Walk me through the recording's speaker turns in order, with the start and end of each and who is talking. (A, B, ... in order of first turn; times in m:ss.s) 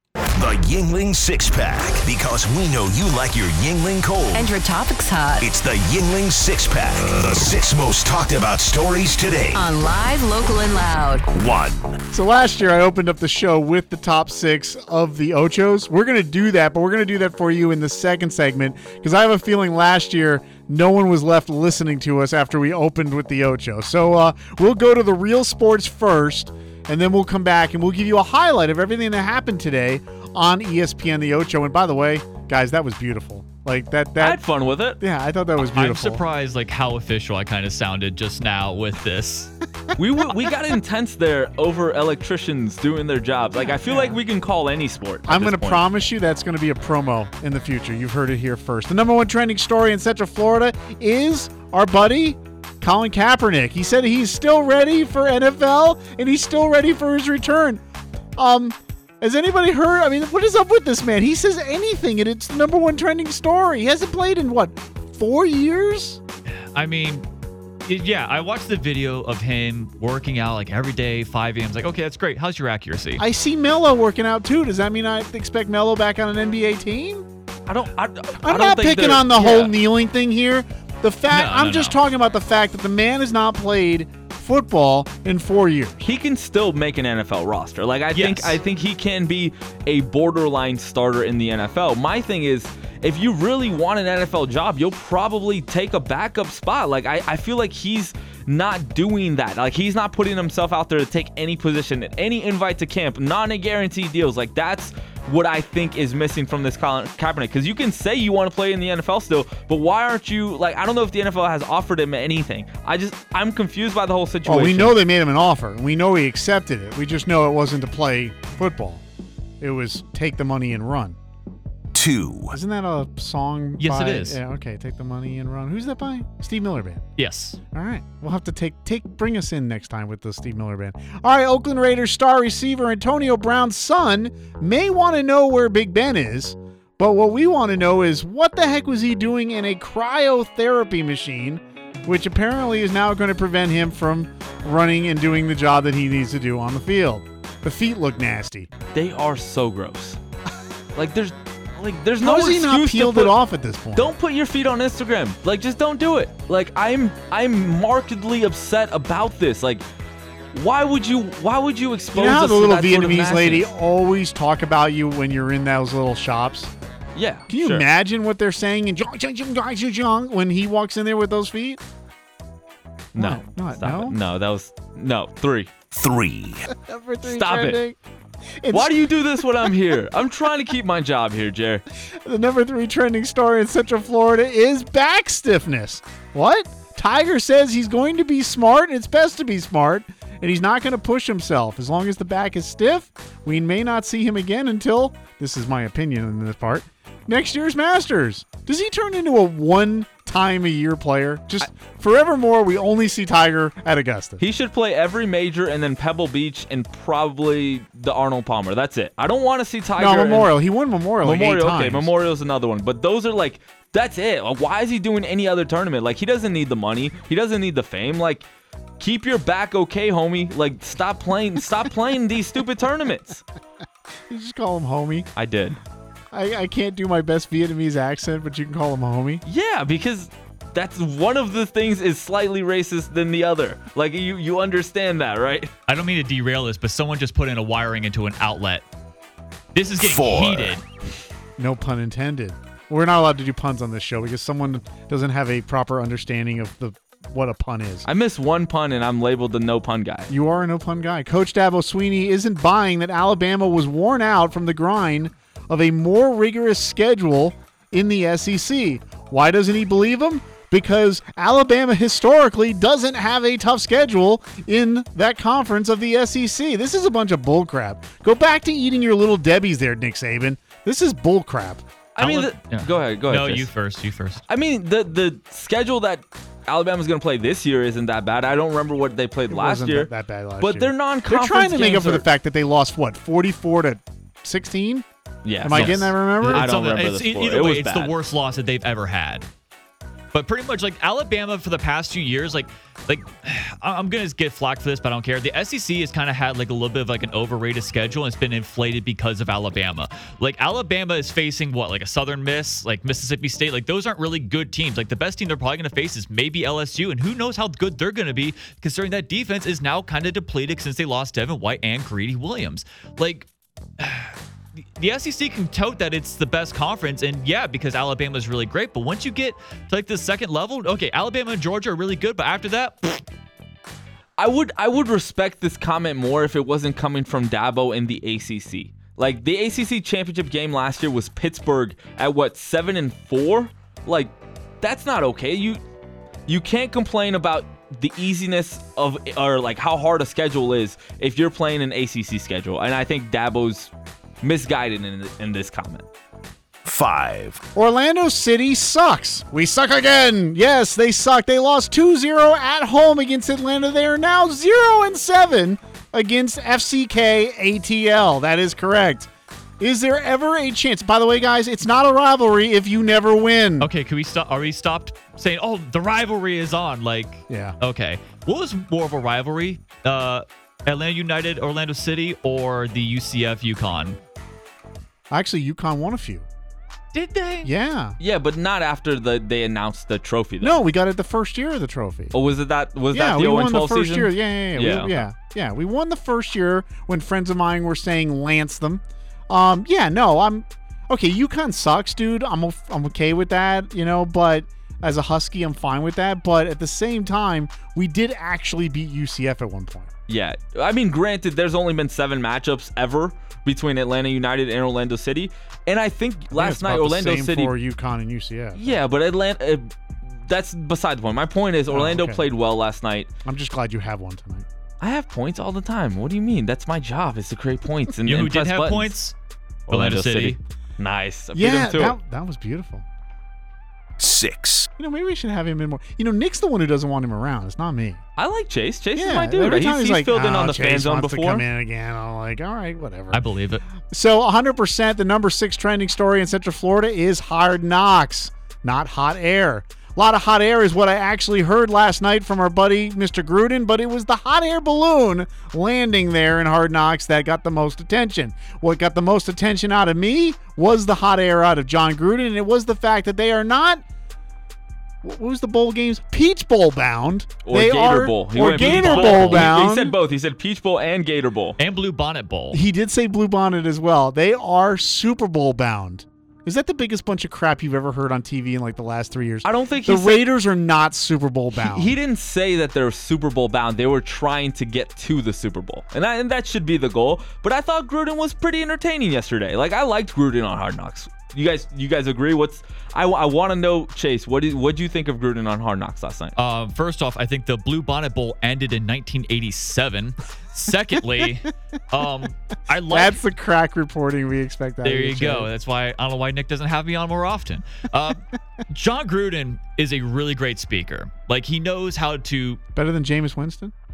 0:00.4-0:04.5 A
0:04.3-0:05.5 B
0:05.4-0:09.6 A
0:09.5-0:11.2 B
0:11.3-0:12.0 A
0:12.1-0:34.4 C
0:34.2-0:35.0 D
0:35.0-0:36.2 C
0:35.6-0:39.5 E
0:40.0-0:45.8 D
0:43.6-0:44.2 C
0:45.3-0:57.8 C
0:58.4-1:06.2 C
1:06.7-1:07.3 E
1:07.8-1:13.2 E
1:13.2-1:17.3 C
1:17.7-1:19.8 D
1:18.4-1:26.0 C
1:21.3-1:22.0 E
1:26.0-1:55.0 D
1:28.1-1:28.6 E
1:54.5-1:59.0 C
1:59.6-2:01.2 C
2:01.9-2:02.6 A
2:02.5-2:07.1 C
2:03.8-2:04.4 E
2:07.2-2:07.6 E
2:07.7-2:28.7 C
2:28.9-2:30.2 D
2:31.0-2:33.4 D
2:32.2-2:34.1 C
2:34.0-2:39.8 D
2:40.5-2:43.7 D
2:42.2-2:46.7 C
2:47.2-2:47.9 D
2:47.5-2:51.8 C
2:53.1-2:55.7 D
2:53.2-2:54.2 C
2:55.9-2:56.7 A
2:56.7-2:58.0 C
2:57.2-2:57.8 D
2:58.6-2:59.7 C
2:58.7-3:01.8 D
3:02.1-3:24.4 C
3:24.4-3:30.5 D
3:30.0-3:32.1 C
3:31.2-3:38.5 D
3:39.0-3:43.4 D
3:44.3-3:45.3 C
3:45.4-3:45.8 D
3:46.3-3:49.4 C
3:49.4-3:55.7 D
3:55.9-3:58.8 E
3:59.7-4:00.8 E
4:00.0-4:00.8 A
4:01.6-4:08.1 C
4:08.1-4:10.3 D
4:10.3-4:31.8 C
4:32.2-4:33.7 D
4:32.2-4:34.4 E
4:34.5-4:42.2 D
4:39.5-4:45.1 C
4:45.4-4:48.1 D
4:45.6-4:46.8 C
4:45.7-4:49.5 E
4:50.3-5:13.5 E
5:14.0-5:14.4 E
5:15.0-5:23.2 E
5:24.4-5:35.8 D
5:36.5-5:46.1 D
5:46.8-5:47.6 A
5:47.8-5:59.3 C
5:59.8-6:03.9 C
6:03.8-6:14.2 E
6:07.5-6:07.8 C
6:15.3-6:16.5 C
6:17.1-6:17.7 E
6:17.6-6:18.2 C
6:18.2-6:20.8 D
6:20.6-6:22.4 C
6:22.3-6:25.2 D
6:23.1-6:40.1 C
6:40.3-6:47.7 D
6:46.5-6:49.0 C
6:48.8-6:49.9 D
6:50.4-6:53.3 D
6:51.9-6:52.4 C
6:53.4-6:54.7 C
6:55.0-6:59.1 D
6:58.3-6:59.4 E
6:59.9-7:00.6 E
6:59.9-7:02.2 D
7:01.6-7:03.0 C
7:04.2-7:04.9 A
7:05.0-7:08.2 C
7:08.4-7:11.6 D
7:09.2-7:13.4 C
7:13.3-7:13.8 E
7:14.1-7:34.0 C
7:35.2-7:40.2 C
7:37.6-7:41.8 D
7:38.6-7:39.7 E
7:41.8-7:42.8 E
7:42.7-7:52.2 C
7:49.6-7:50.4 D
7:51.8-8:06.6 D
8:06.6-8:13.4 E
8:13.1-8:15.7 C
8:15.0-8:22.8 E
8:23.0-8:23.9 C